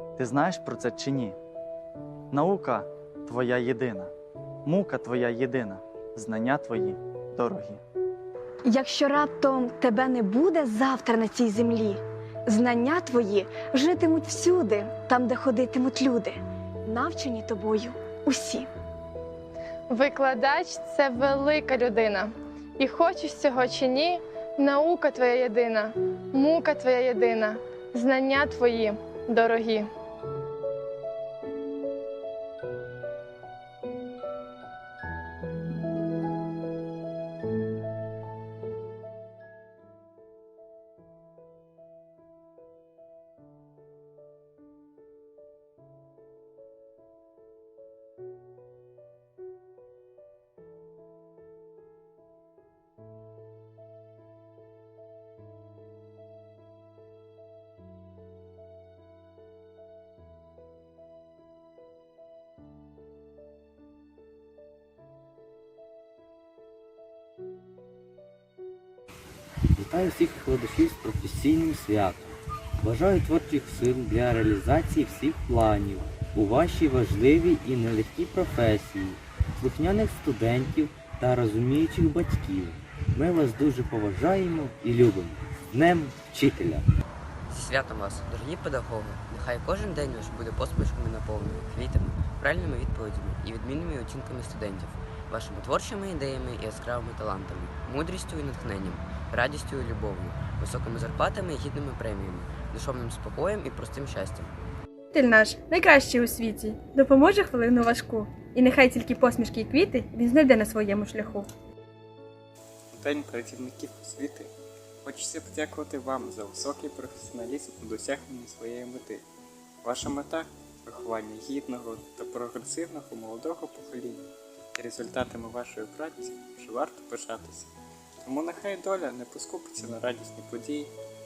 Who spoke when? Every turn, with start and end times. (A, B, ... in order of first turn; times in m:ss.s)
0:00.2-0:01.4 A
0:02.3-0:04.1 A
0:04.6-0:07.8 A
0:08.6-0:18.7 B
0:19.9-0:29.8 C
1:09.7-1:12.3 D
1:12.8-1:26.8 D
1:27.5-1:44.5 E
1:45.1-1:51.5 F
1:52.9-1:54.5 G
1:55.0-1:59.2 G
1:59.8-2:07.7 G
2:08.2-2:10.9 G